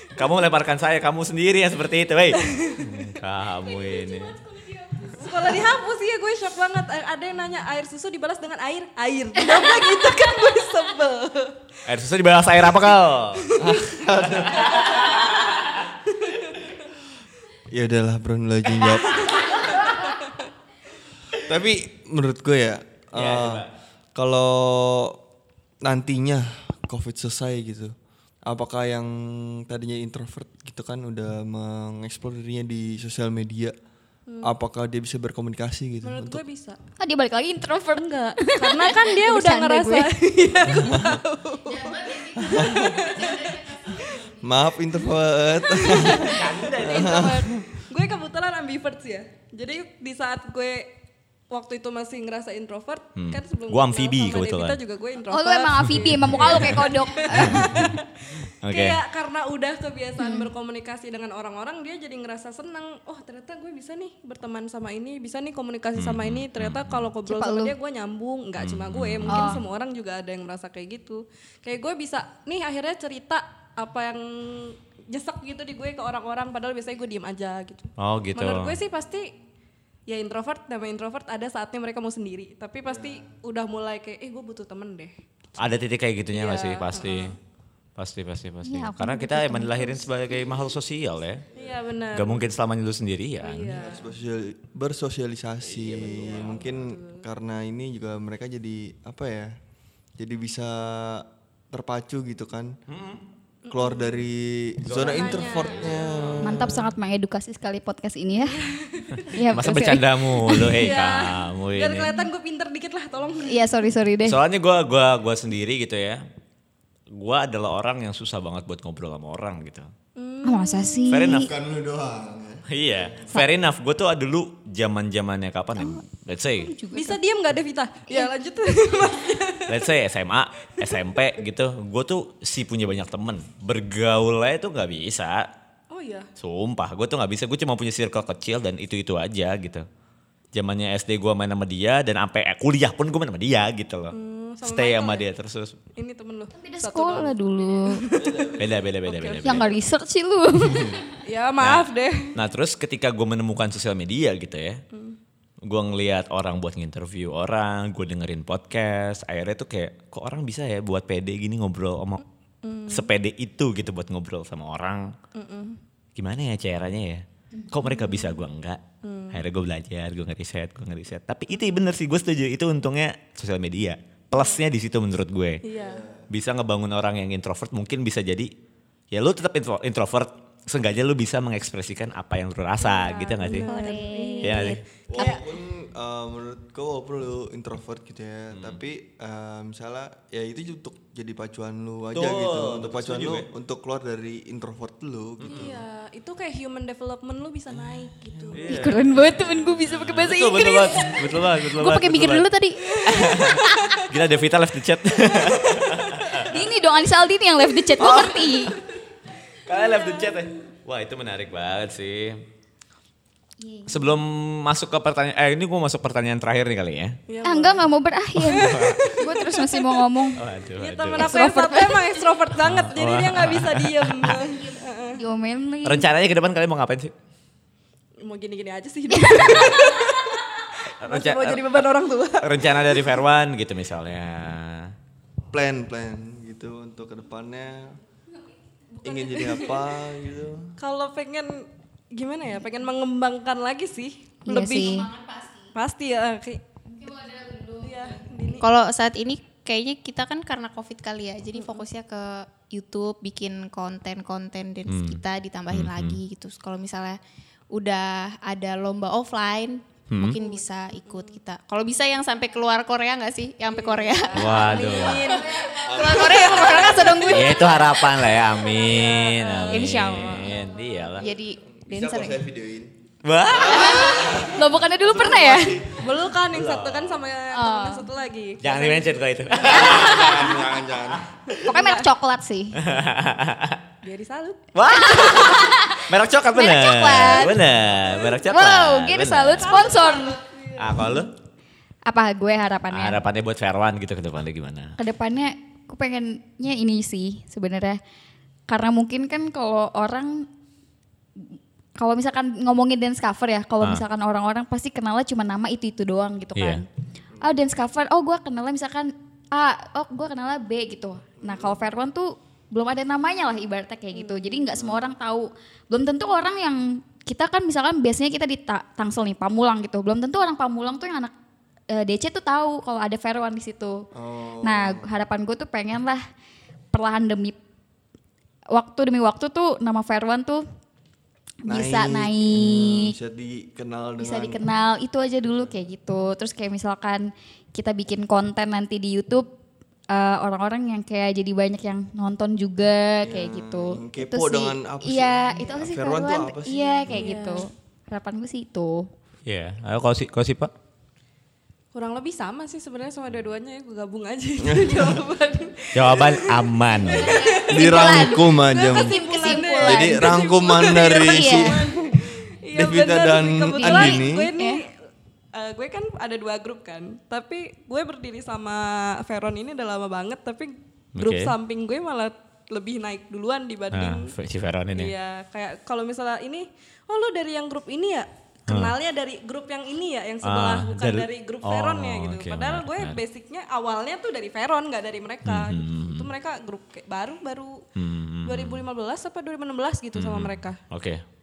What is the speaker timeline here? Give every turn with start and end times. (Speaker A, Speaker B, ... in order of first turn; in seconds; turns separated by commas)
Speaker A: 0.1-4.4, Speaker B: 2.3-3.1, Speaker C: 4.0-5.1, Speaker B: 5.1-11.6, Speaker A: 11.8-13.6, Speaker B: 13.4-13.9, Speaker D: 13.6-14.8, Speaker A: 14.3-15.8, Speaker D: 17.7-19.4, Speaker D: 21.4-25.2, Speaker A: 23.1-23.7, Speaker D: 25.8-27.9, Speaker D: 28.4-33.7, Speaker B: 34.3-34.5, Speaker D: 34.4-36.4, Speaker B: 36.0-36.8, Speaker C: 37.0-40.1, Speaker B: 38.0-44.2, Speaker D: 40.8-41.2, Speaker D: 42.4-43.1, Speaker E: 43.2-43.8, Speaker D: 44.3-47.6, Speaker B: 45.7-50.9, Speaker A: 46.2-47.5, Speaker B: 51.5-79.3, Speaker A: 53.1-54.8, Speaker C: 55.3-57.9, Speaker A: 56.0-58.0, Speaker A: 58.6-59.0, Speaker C: 60.2-60.5, Speaker A: 66.0-67.1, Speaker C: 67.2-67.7, Speaker A: 68.6-69.5, Speaker C: 69.3-69.6, Speaker A: 78.0-78.8, Speaker B: 80.1-85.1, Speaker D: 82.8-83.2, Speaker A: 85.6-87.4, Speaker B: 86.3-87.4, Speaker A: 88.0-91.4, Speaker C: 88.6-90.1, Speaker B: 91.5-92.4, Speaker A: 92.1-93.7, Speaker B: 93.4-94.1, Speaker D: 93.7-99.5, Speaker A: 95.6-96.7, Speaker B: 96.0-97.2, Speaker D: 100.2-102.8, Speaker A: 102.9-103.2, Speaker B: 103.6-104.2, Speaker D: 103.7-106.9, Speaker A: 104.9-105.9, Speaker B: 104.9-106.4, Speaker C: 106.4-108.6, Speaker B: 108.4-109.3, Speaker A: 109.2-112.2, Speaker C: 109.3-110.9, Speaker B: 110.7-113.7, Speaker C: 113.4-114.4, Speaker A: 114.2-116.2, Speaker A: 117.1-119.9, Speaker B: 120.2-121.2, Speaker C: 120.4-121.5, Speaker A: 121.1-121.5, Speaker D: 121.3-123.2, Speaker A: 122.7-126.7, Speaker C: 125.8-126.0, Speaker C: 126.6-127.2, Speaker B: 126.9-129.8, Speaker A: 129.7-135.5, Speaker B: 135.9-136.3, Speaker A: 136.4-139.8, Speaker A: 140.5-145.8, Speaker B: 144.1-145.2, Speaker B: 145.9-148.5, Speaker C: 146.5-148.0, Speaker D: 148.1-148.8, Speaker A: 148.6-149.8, Speaker B: 149.0-149.6, Speaker C: 149.4-151.0, Speaker B: 151.2-152.4, Speaker A: 151.6-154.8, Speaker B: 154.9-155.2, Speaker A: 155.6-162.2, Speaker B: 162.6-163.1, Speaker A: 162.9-165.1, Speaker B: 165.3-165.8, Speaker A: 166.2-175.6, Speaker C: 167.6-168.2, Speaker B: 169.0-169.4, Speaker B: 174.3-174.6, Speaker B: 175.6-176.0, Speaker D: 175.8-176.3, Speaker A: 176.3-178.5, Speaker A: 179.1-183.7, Speaker B: 182.8-185.4, Speaker E: 183.4-185.4, Speaker C: 183.8-184.1, Speaker A: 184.4-184.8, Speaker D: 185.1-195.8, Speaker A: 188.5-188.8, Speaker A: 192.1-193.5, Speaker A: 195.4-195.7, Speaker B: 195.4-198.8, Speaker D: 198.3-198.6, Speaker A: 198.5-202.5, Speaker C: 198.7-201.4, Speaker E: 201.7-203.5, Speaker B: 202.9-204.0, Speaker A: 203.0-206.5, Speaker B: 205.3-205.9, Speaker C: 206.4-208.8, Speaker A: 208.0-208.7, Speaker A: 209.7-212.4, Speaker B: 209.9-210.4, Speaker C: 213.6-214.1, Speaker A: 213.9-217.2, Speaker B: 217.3-217.8, Speaker C: 217.4-220.4, Speaker B: 218.4-219.9, Speaker A: 218.5-219.0, Speaker A: 220.4-221.3, Speaker B: 220.8-225.2, Speaker C: 221.2-222.3, Speaker A: 222.6-224.4, Speaker C: 225.2-226.1, Speaker A: 225.8-227.1, Speaker B: 228.2-233.0, Speaker C: 229.1-229.9, Speaker A: 231.0-231.9, Speaker A: 232.4-234.9, Speaker D: 235.5-238.0, Speaker B: 238.9-239.9, Speaker D: 239.0-240.8, Speaker B: 240.8-245.1, Speaker C: 244.4-245.1, Speaker E: 244.8-245.7, Speaker B: 245.7-246.6, Speaker C: 246.9-248.2, Speaker B: 247.8-248.7, Speaker E: 248.6-257.2, Speaker B: 251.5-251.8, Speaker A: 254.9-256.2, Speaker E: 257.7-267.8, Speaker A: 260.1-260.4, Speaker B: 260.4-261.4, Speaker B: 263.7-267.3, Speaker A: 264.3-265.3, Speaker C: 264.9-267.2, Speaker D: 265.8-266.8, Speaker A: 267.2-271.3, Speaker B: 268.7-270.1, Speaker E: 269.7-270.6, Speaker E: 271.2-272.4, Speaker D: 271.6-272.9, Speaker A: 273.2-274.2, Speaker D: 273.5-276.0, Speaker C: 273.6-275.8, Speaker B: 276.0-280.5, Speaker A: 276.5-277.2, Speaker C: 277.5-278.1, Speaker A: 278.6-280.6, Speaker D: 279.7-281.2, Speaker C: 281.6-282.8, Speaker B: 281.6-282.1, Speaker A: 282.8-283.8, Speaker B: 284.0-284.7, Speaker A: 284.7-289.8, Speaker C: 284.9-287.6, Speaker C: 288.4-290.4, Speaker B: 289.6-291.2, Speaker A: 290.8-291.3, Speaker C: 292.1-293.2, Speaker A: 292.9-294.9, Speaker C: 295.0-298.0, Speaker C: 298.7-300.5, Speaker C: 301.9-306.9, Speaker A: 306.6-306.8, Speaker D: 307.3-307.6, Speaker C: 307.4-321.3, Speaker D: 311.4-311.8, Speaker B: 314.2-314.6, Speaker D: 314.8-315.1, Speaker C: 321.9-324.1, Speaker D: 324.1-325.1, Speaker C: 324.6-326.2, Speaker C: 326.9-327.6, Speaker C: 328.7-330.6, Speaker C: 331.6-333.1, Speaker D: 331.7-334.6, Speaker C: 334.2-339.5, Speaker C: 340.1-349.1, Speaker D: 343.2-347.3, Speaker B: 347.1-347.6, Speaker A: 349.4-350.7, Speaker B: 351.9-364.9, Speaker D: 354.6-355.1, Speaker A: 355.9-357.5, Speaker C: 357.1-360.3, Speaker D: 357.7-362.1, Speaker E: 359.3-359.6, Speaker C: 361.1-361.8, Speaker D: 362.7-364.5, Speaker C: 363.8-364.8, Speaker B: 365.5-374.3, Speaker A: 371.1-371.6, Speaker A: 373.9-375.1, Speaker B: 374.9-387.8, Speaker A: 378.7-378.9, Speaker A: 380.4-383.2, Speaker A: 385.4-386.3, Speaker A: 387.9-388.8, Speaker B: 388.4-390.8, Speaker A: 390.1-391.2